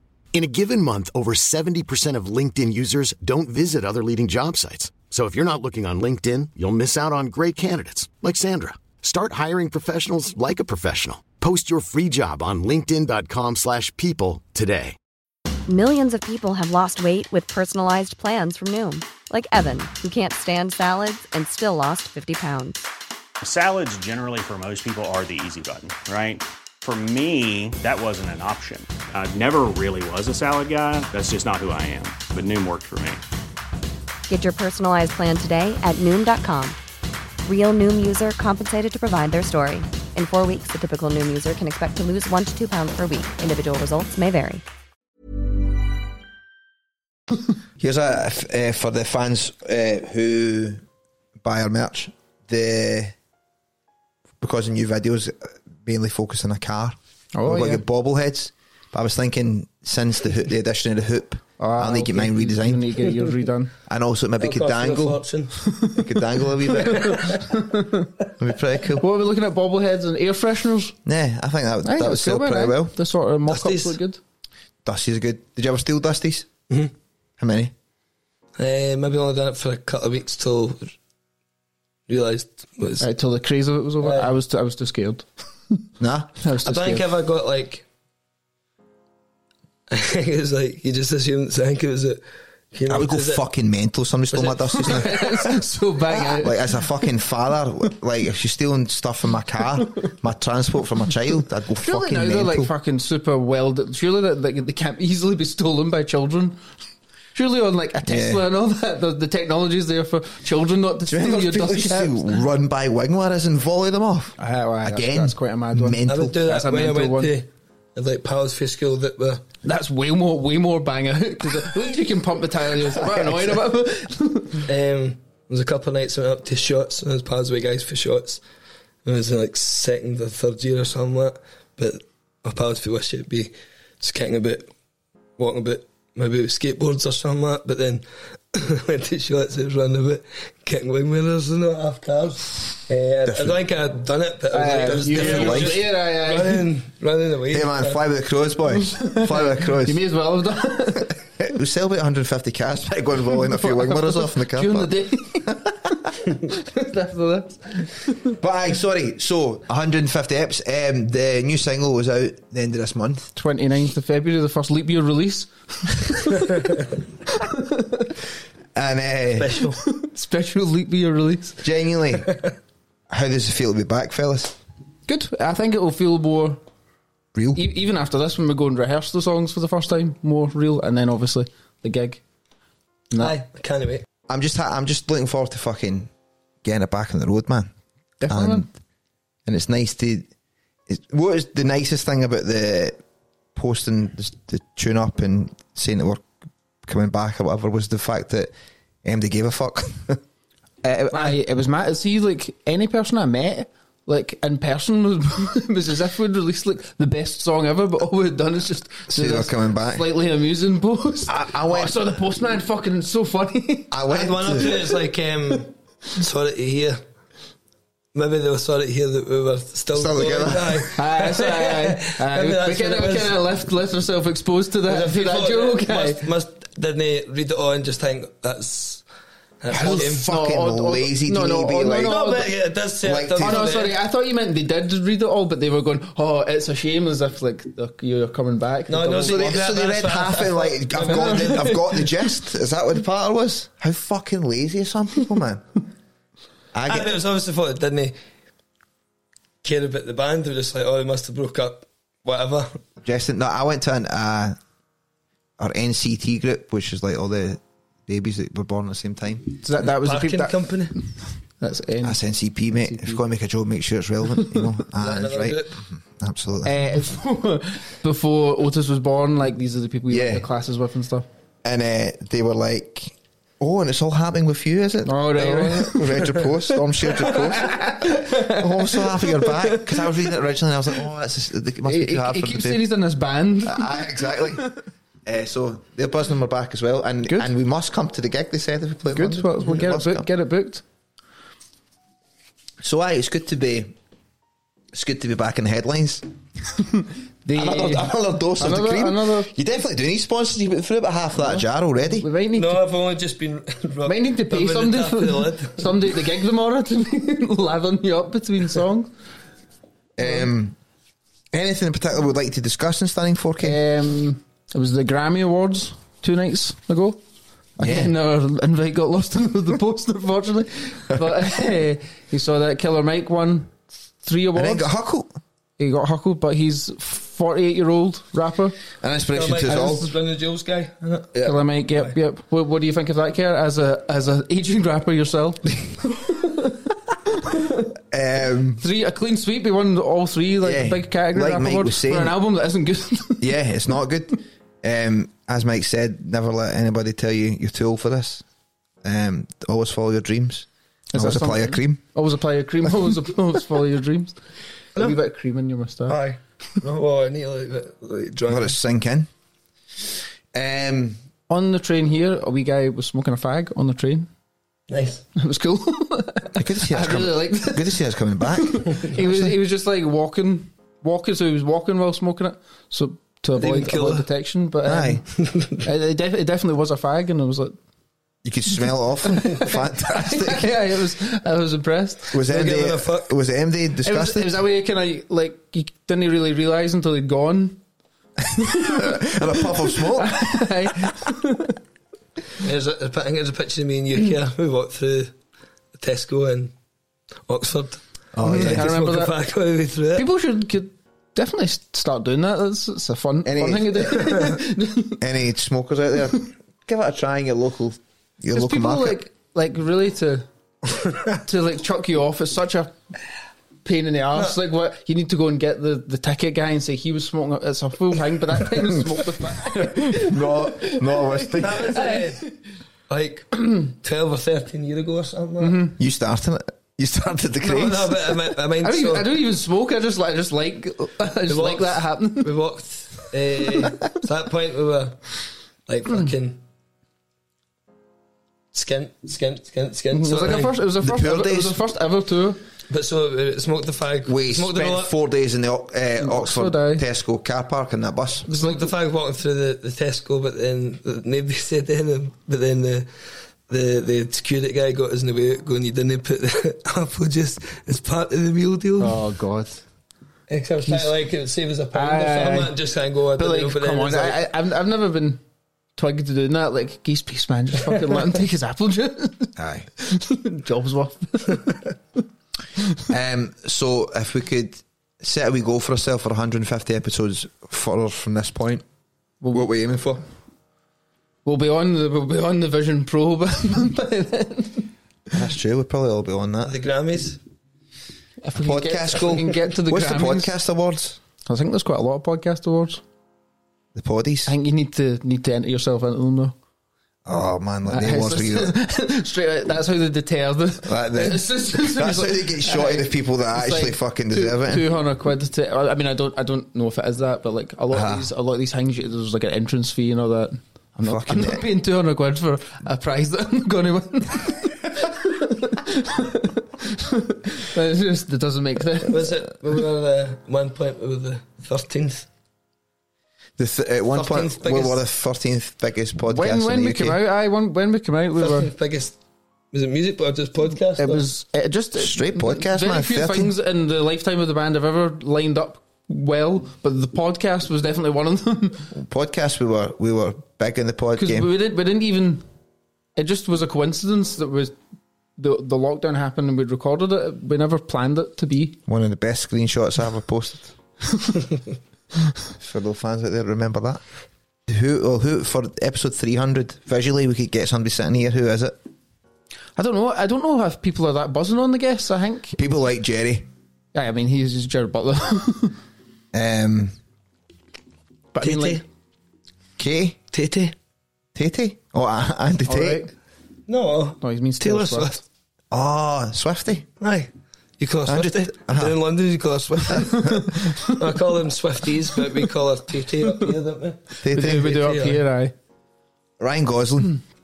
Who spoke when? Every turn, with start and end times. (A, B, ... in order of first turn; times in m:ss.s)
0:00.3-0:15.0 A
0:15.7-0:22.8 B
0:23.4-0:33.2 C
0:34.3-0:36.8 B
0:37.4-0:44.6 B
0:47.8-0:50.8 D
0:51.4-0:53.2 D
0:54.4-1:03.1 D
0:57.3-0:57.8 E
1:01.6-1:03.7 E
1:03.9-1:07.2 D
1:04.4-1:05.9 F
1:06.8-1:07.4 F
1:07.3-1:08.1 E
1:08.4-1:09.0 D
1:09.0-1:11.0 E
1:11.0-1:12.9 D
1:11.8-1:14.2 E
1:13.5-1:14.0 F
1:14.8-1:16.5 D
1:17.4-1:17.7 D
1:18.6-1:20.9 F
1:22.1-1:23.0 F
1:23.0-1:25.8 E
1:24.0-1:24.3 F
1:26.0-1:26.4 D
1:26.4-1:27.1 E
1:26.6-1:27.8 F
1:29.9-1:33.4 F
1:32.9-1:35.1 D
1:34.3-1:35.3 F
1:34.8-1:36.7 E
1:36.4-1:42.7 D
1:41.8-1:46.6 E
1:47.3-1:52.3 E
1:48.1-1:48.4 D
1:51.1-1:56.4 D
1:54.4-1:57.3 E
1:56.1-1:59.5 F
1:59.6-2:04.6 E
2:04.6-2:08.4 F
2:09.0-2:14.7 F
2:15.4-2:28.0 F
2:23.3-2:23.6 D
2:24.5-2:26.6 E
2:24.8-2:25.8 D
2:27.5-2:30.0 D
2:29.1-2:31.1 E
2:31.4-2:35.9 D
2:33.5-2:35.6 E
2:36.4-2:38.3 E
2:38.4-2:43.3 D
2:43.4-2:46.5 E
2:47.4-2:48.1 E
2:48.8-2:49.6 D
2:49.4-2:49.8 F
2:49.8-2:51.6 E
2:51.6-2:52.3 D
2:53.1-2:54.6 D
2:55.1-2:56.6 E
2:57.3-2:57.6 D
2:57.6-3:02.2 E
3:03.2-3:04.0 F
3:04.3-3:06.1 D
3:06.6-3:07.7 D
3:08.2-3:08.7 E
3:08.3-3:08.7 D
3:09.5-3:10.3 D
3:10.9-3:13.0 D
3:13.6-3:16.3 D
3:16.8-3:18.5 D
3:19.0-3:20.2 D
3:20.8-3:21.4 D
3:21.1-3:34.0 E
3:29.1-3:30.1 D
3:31.3-3:32.1 D
3:33.9-3:34.9 D
3:34.1-3:37.0 F
3:38.1-3:43.4 F
3:39.9-3:40.9 D
3:41.0-3:46.2 E
3:44.9-3:49.1 F
3:49.6-3:50.3 F
3:49.7-3:52.2 D
3:49.8-3:52.5 E
3:52.0-3:54.0 F
3:53.0-3:53.6 D
3:53.4-3:59.6 E
3:58.9-4:01.6 F
3:59.2-4:05.8 D
4:01.0-4:02.1 E
4:06.7-4:07.2 D
4:06.9-4:08.2 F
4:09.6-4:12.8 F
4:13.0-4:14.6 D
4:15.6-4:19.5 D
4:19.6-4:20.7 E
4:19.9-4:21.0 F
4:21.6-4:22.2 E
4:22.0-4:26.8 D
4:22.8-4:23.2 E
4:25.0-4:25.8 F
4:26.6-4:31.3 E
4:30.1-4:30.5 D
4:31.6-4:37.9 D
4:35.0-4:36.4 E
4:37.0-4:40.0 E
4:38.5-4:42.9 D
4:41.8-4:44.4 E
4:43.6-4:44.7 D
4:45.2-4:50.3 D
4:47.3-4:47.5 E
4:49.1-4:50.8 E
4:52.8-4:54.0 D
4:54.9-4:56.2 D
4:57.4-4:59.5 E
4:57.5-5:02.3 D
5:01.4-5:02.8 E
5:02.6-5:06.2 F
5:04.1-5:09.1 E
5:10.2-5:10.8 D
5:11.5-5:13.8 D
5:13.6-5:17.2 E
5:17.8-5:24.9 E
5:17.8-5:18.1 D
5:24.6-5:25.4 D
5:25.8-5:28.8 E
5:29.0-5:30.1 D
5:29.3-5:31.3 F
5:31.4-5:36.8 E
5:37.4-5:37.8 E
5:38.1-5:38.8 D
5:38.8-5:43.5 E
5:40.6-5:42.4 D
5:43.4-5:48.4 D
5:49.0-5:52.0 D
5:51.1-5:54.4 E
5:55.0-5:56.2 E
5:56.1-5:58.8 F
5:58.5-5:59.3 D
6:00.5-6:01.2 D
6:01.5-6:04.3 E
6:04.9-6:05.2 F
6:05.4-6:08.0 E
6:06.6-6:09.5 D
6:08.6-6:17.8 E
6:13.6-6:14.3 F
6:14.9-6:15.2 D
6:15.4-6:15.7 F
6:18.4-6:20.7 D
6:19.4-6:22.4 E
6:22.3-6:24.6 D
6:22.5-6:23.3 F
6:24.0-6:27.8 E
6:28.6-6:31.8 E
6:28.9-6:30.7 D
6:32.6-6:35.4 F
6:36.0-6:36.7 F
6:37.5-6:40.3 F
6:38.3-6:38.9 D
6:38.4-6:39.3 E
6:40.2-6:45.2 E
6:43.4-6:44.6 D
6:45.2-6:49.2 D
6:48.5-6:50.5 E
6:51.4-6:53.0 E
6:53.8-7:02.5 E
7:00.0-7:02.1 D
7:01.6-7:02.5 F
7:03.1-7:05.8 F
7:05.6-7:06.0 E
7:06.0-7:08.3 D
7:07.6-7:09.3 F
7:08.8-7:12.5 E
7:11.5-7:16.6 F
7:18.7-7:20.8 F
7:20.1-7:22.6 E
7:21.0-7:21.8 D
7:22.9-7:25.1 F
7:24.3-7:28.5 D
7:26.2-7:27.0 E
7:28.5-7:28.9 E
7:28.5-7:39.2 F
7:39.0-7:39.8 E
7:40.5-7:44.5 F
7:40.9-7:41.2 E
7:41.9-7:42.7 E
7:43.4-7:45.4 E
7:46.0-7:51.8 E
7:49.6-7:49.9 D
7:53.1-7:58.8 D
7:59.4-7:59.7 E
7:59.5-8:00.2 D
8:01.4-8:04.9 E
8:05.3-8:06.8 D
8:06.6-8:07.4 F
8:08.4-8:10.6 E
8:08.6-8:11.2 D
8:11.5-8:13.0 E
8:13.9-8:14.5 D
8:14.5-8:16.6 E
8:17.3-8:18.8 D
8:17.9-8:39.2 E
8:20.8-8:24.8 D
8:27.9-8:28.3 D
8:31.0-8:31.6 D
8:39.0-8:42.3 F
8:43.6-8:47.2 D
8:44.1-8:45.0 F
8:46.3-8:48.7 E
8:48.4-8:49.2 F
8:49.7-8:51.2 F
8:51.0-8:58.9 E
8:52.0-8:53.5 D
8:58.9-9:01.5 D
9:01.2-9:02.4 E
9:03.2-9:04.8 E
9:05.4-9:08.8 E
9:08.9-9:10.7 D
9:12.6-9:14.0 D
9:14.7-9:18.8 D
9:19.8-9:22.6 E
9:22.6-9:23.5 D
9:23.9-9:25.8 E
9:26.3-9:27.0 D
9:28.3-9:28.8 E
9:28.4-9:28.8 F
9:29.8-9:30.2 D
9:30.3-9:30.8 F
9:31.4-9:33.1 D
9:32.7-9:33.1 E
9:33.7-9:35.2 F
9:34.2-9:35.1 E
9:35.7-9:36.9 D
9:37.0-9:45.2 F
9:38.1-9:39.0 D
9:44.2-9:44.8 D
9:44.3-9:45.5 E
9:46.4-9:47.2 D